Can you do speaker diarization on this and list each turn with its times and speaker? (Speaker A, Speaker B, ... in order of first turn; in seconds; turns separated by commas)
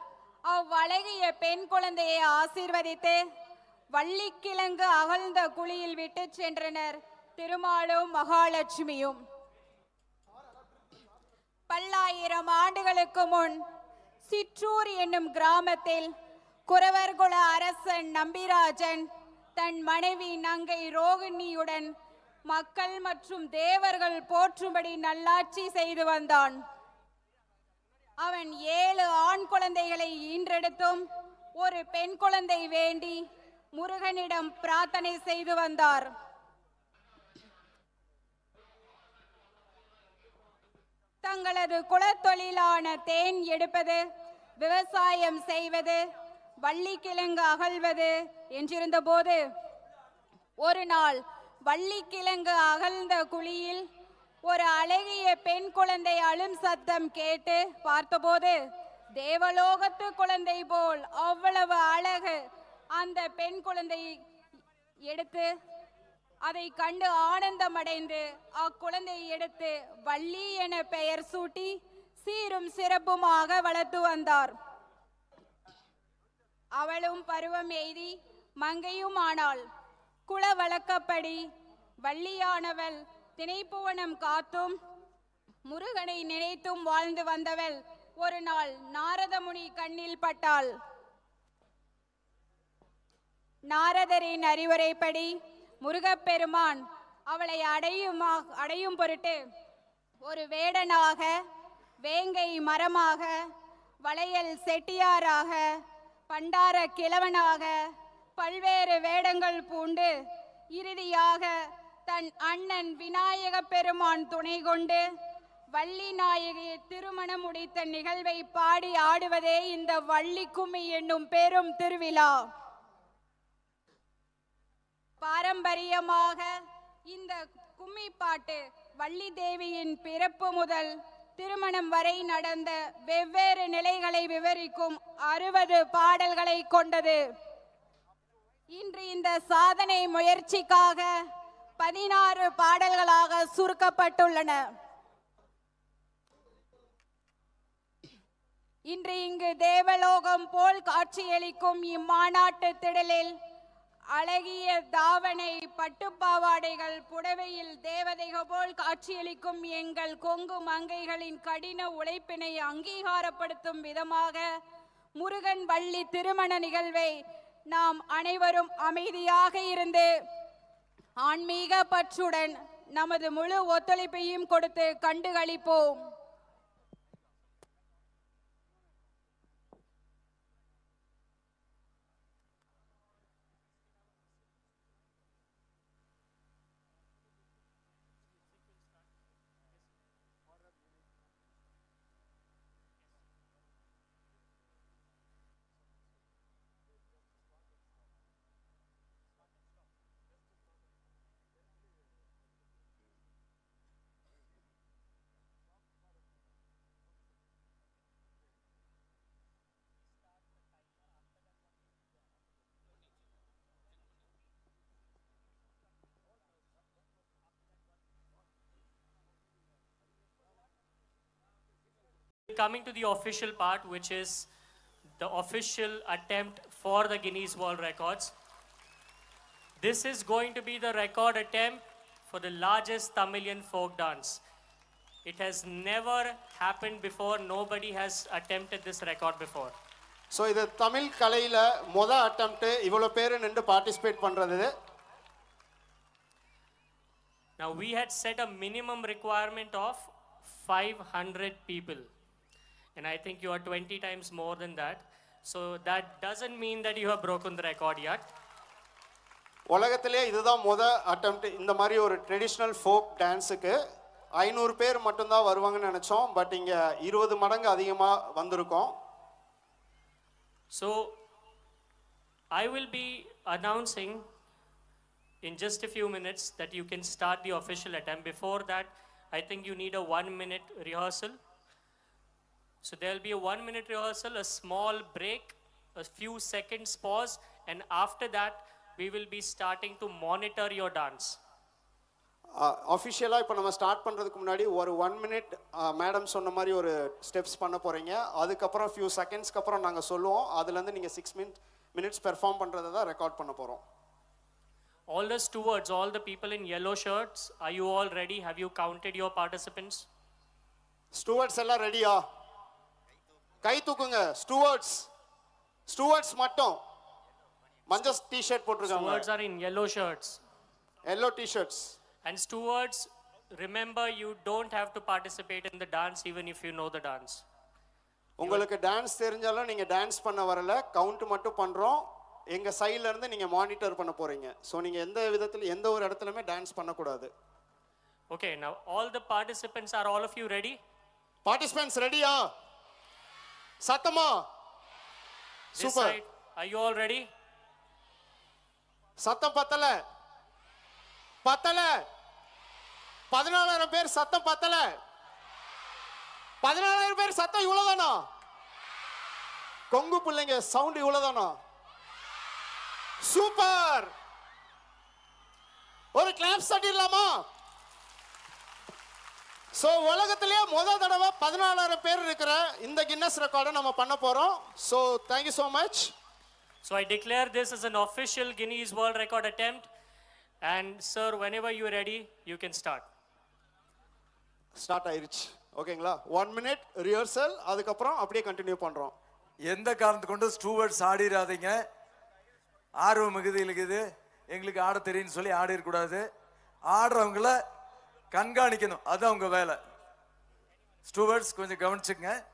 Speaker A: 0.5-3.2, Speaker A: 3.9-9.2, Speaker A: 11.7-13.6, Speaker A: 14.2-16.1, Speaker A: 16.7-21.9, Speaker A: 22.5-26.6, Speaker A: 28.2-31.0, Speaker A: 31.6-33.2, Speaker A: 33.7-36.1, Speaker A: 41.2-44.0, Speaker A: 44.6-46.0, Speaker A: 46.6-49.4, Speaker A: 50.6-53.8, Speaker A: 54.4-58.6, Speaker A: 59.2-62.4, Speaker A: 62.9-64.1, Speaker A: 65.1-65.5, Speaker A: 66.4-74.5, Speaker A: 76.8-79.6, Speaker A: 80.3-81.4, Speaker A: 82.0-84.7, Speaker A: 85.7-90.7, Speaker A: 93.7-99.4, Speaker A: 100.2-101.3, Speaker A: 102.0-103.3, Speaker A: 104.0-105.7, Speaker A: 106.3-107.7, Speaker A: 108.4-110.1, Speaker A: 110.7-111.5, Speaker A: 112.1-115.0, Speaker A: 115.7-122.4, Speaker A: 125.2-126.5, Speaker A: 127.1-137.2, Speaker A: 138.7-141.1, Speaker A: 141.8-144.6, Speaker A: 148.9-153.3, Speaker A: 154.1-164.4, Speaker A: 165.2-167.2, Speaker A: 167.7-170.1, Speaker A: 171.2-176.0, Speaker B: 222.5-224.5, Speaker B: 225.2-228.3, Speaker B: 229.8-234.4, Speaker B: 235.2-239.7, Speaker C: 240.3-244.7, Speaker B: 247.6-252.1, Speaker B: 252.9-258.3, Speaker C: 259.7-263.8, Speaker C: 264.4-268.9, Speaker B: 270.7-271.1, Speaker B: 272.5-274.2, Speaker B: 275.4-281.4, Speaker B: 282.8-291.4, Speaker C: 292.6-303.8, Speaker B: 305.1-310.1, Speaker C: 311.1-312.2, Speaker C: 313.6-315.1, Speaker C: 315.9-316.8, Speaker C: 317.9-319.3, Speaker B: 318.8-320.4, Speaker C: 321.1-321.9, Speaker B: 322.2-327.4, Speaker C: 328.4-337.3, Speaker B: 338.3-340.8, Speaker C: 341.4-342.4, Speaker C: 343.8-344.4, Speaker C: 345.8-346.2, Speaker B: 345.8-347.3, Speaker C: 349.2-349.9, Speaker C: 351.4-352.0, Speaker C: 353.3-354.9, Speaker C: 356.6-358.2, Speaker C: 359.9-361.6, Speaker C: 363.2-364.1, Speaker C: 366.1-367.4, Speaker C: 369.8-376.1, Speaker B: 376.8-379.9, Speaker B: 380.6-383.1, Speaker C: 384.8-389.1, Speaker D: 389.7-391.8, Speaker D: 393.0-396.2, Speaker D: 396.9-397.6, Speaker D: 398.3-399.8, Speaker D: 401.1-402.4